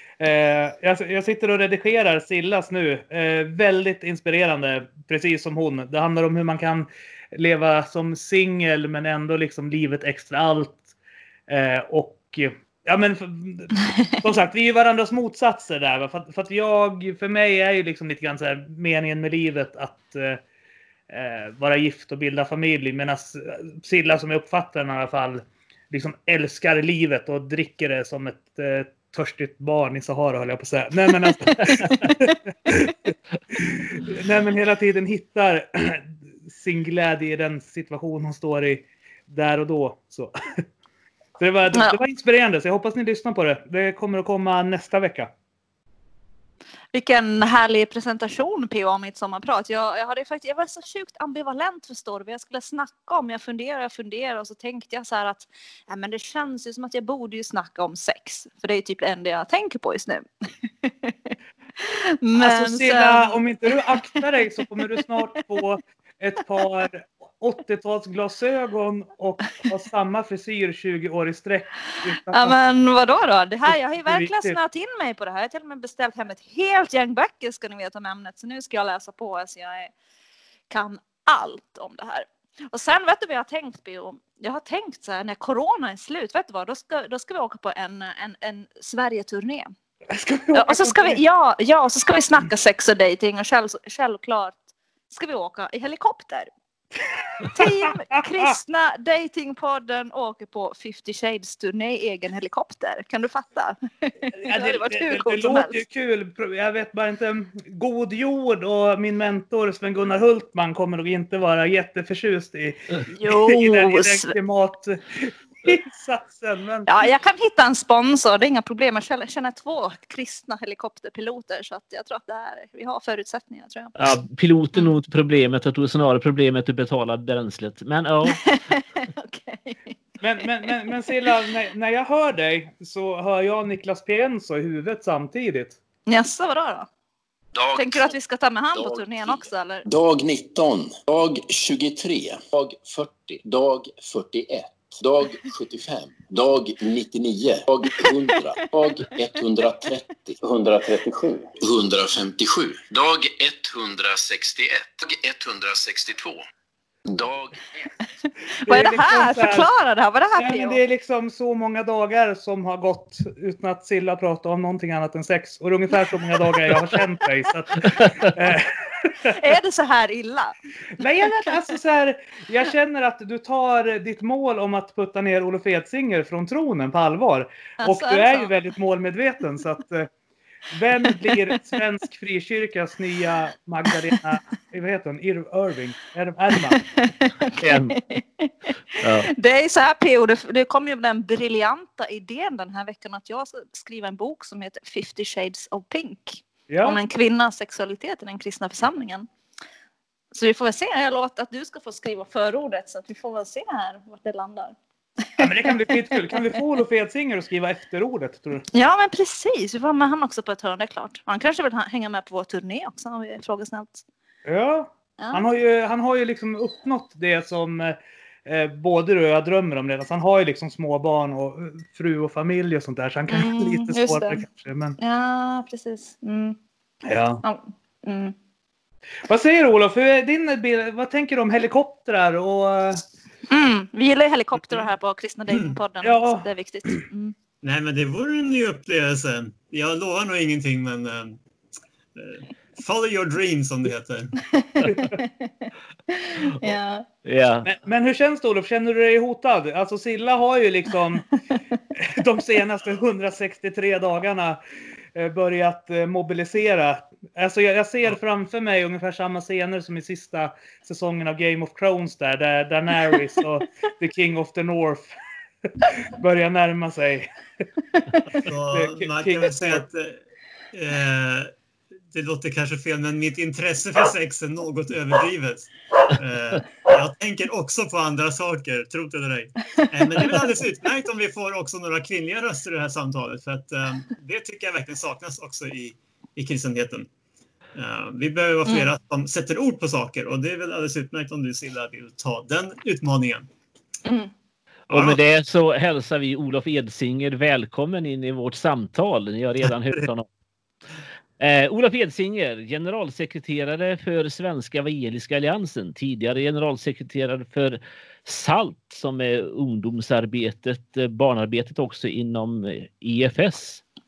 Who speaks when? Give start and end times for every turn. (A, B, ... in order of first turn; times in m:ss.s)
0:00.2-0:10.8 A
0:11.5-0:20.4 A
0:21.1-0:40.3 A
0:31.3-0:32.4 B
0:41.4-0:45.3 A
0:41.7-0:42.0 B
0:46.9-1:00.3 B
1:00.8-1:04.2 B
1:02.4-1:12.6 A
1:04.8-1:05.0 B
1:11.9-1:19.9 B
1:14.1-1:14.6 A
1:20.7-1:29.7 B
1:30.1-1:31.2 A
1:30.5-1:36.5 B
1:37.4-1:37.7 A
1:37.4-1:45.8 B
1:44.3-1:56.9 A
1:53.1-1:54.4 B
1:56.9-2:03.9 B
2:04.0-2:08.4 C
2:08.3-2:11.0 B
2:10.2-2:15.8 A
2:16.1-2:16.9 B
2:17.5-2:18.1 D
2:17.7-2:19.9 B
2:18.8-2:36.4 D
2:28.0-2:29.9 B
2:37.1-2:37.6 D
2:38.6-2:40.8 B
2:38.7-2:39.7 A
2:40.4-2:49.3 A
2:49.2-2:50.6 B
2:51.0-3:00.1 A
2:51.2-2:51.5 B
2:57.8-2:58.5 B
3:00.7-3:06.8 A
3:06.7-3:19.3 B
3:07.5-3:08.0 C
3:09.0-3:09.3 C
3:16.7-3:17.0 A
3:20.3-3:24.8 B
3:25.4-3:26.5 B
3:25.4-3:28.6 A
3:28.7-3:34.0 B
3:34.5-3:45.0 A
3:35.2-3:35.4 B
3:43.3-3:44.4 B
3:45.0-3:46.6 B
3:47.1-3:47.4 A
3:47.4-3:48.4 B
3:49.3-3:53.0 A
3:53.5-3:57.4 B
3:56.0-3:56.5 A
3:57.6-4:01.4 E
4:02.2-4:04.4 E
4:04.5-4:07.1 B
4:07.2-4:07.7 C
4:07.6-4:11.3 A
4:12.0-4:14.6 A
4:15.2-4:25.1 A
4:25.8-4:27.4 A
4:28.3-4:30.2 E
4:28.7-4:29.9 A
4:30.7-4:31.5 E
4:32.1-4:47.1 E
4:47.8-4:53.5 E
4:54.0-4:54.3 B
4:54.9-5:00.3 C
4:54.9-4:55.2 E
5:01.4-5:13.8 C